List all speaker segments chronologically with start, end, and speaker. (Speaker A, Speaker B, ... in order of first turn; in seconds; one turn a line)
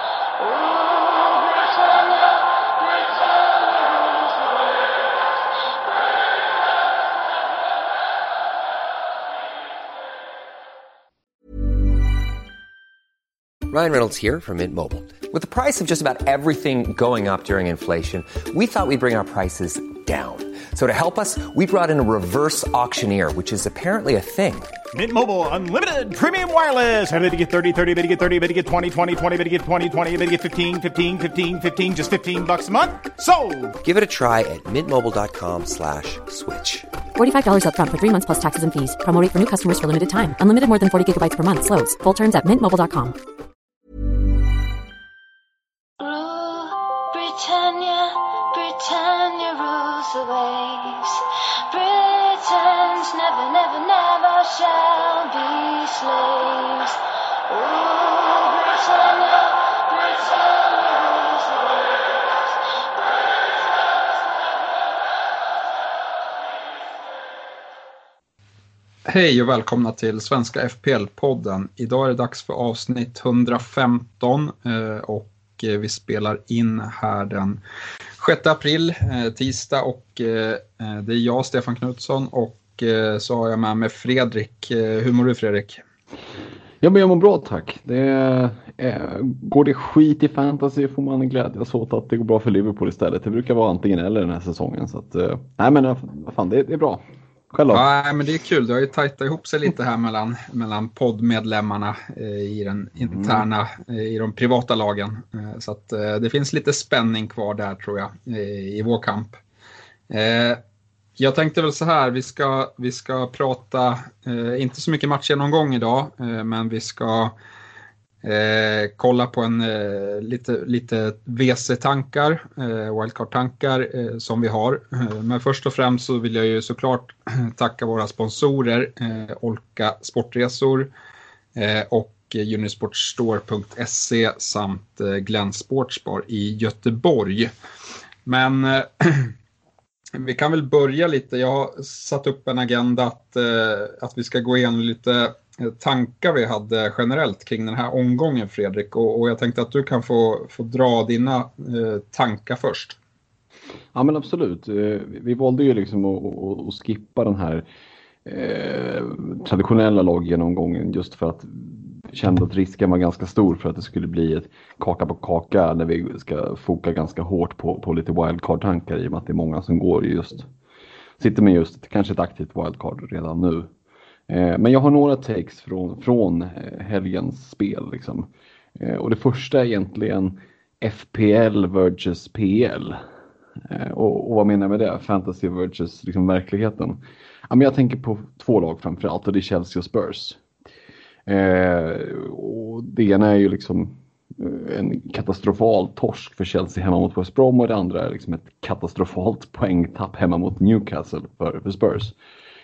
Speaker A: 0.4-5.1
Speaker B: 13.7-24.7
Speaker C: 24.9-33.7
Speaker B: 33.8-36.9
Speaker D: 37.2-43.2
Speaker A: 46.0-64.1
Speaker E: 69.1-77.6
Speaker E: 78.2-85.8
Speaker F: 86.8-97.9
Speaker E: 97.7-109.4
Speaker F: 103.1-103.4
Speaker E: 110.1-110.6
Speaker E: 111.2-117.3
Speaker E: 118.2-130.9
Speaker E: 131.6-137.5
Speaker E: 138.2-139.3
Speaker E: 140.1-153.0
Speaker F: 153.9-157.7
Speaker F: 158.2-170.5
Speaker F: 171.2-173.7
Speaker F: 174.3-183.0
Speaker F: 183.7-190.4
Speaker F: 191.3-202.2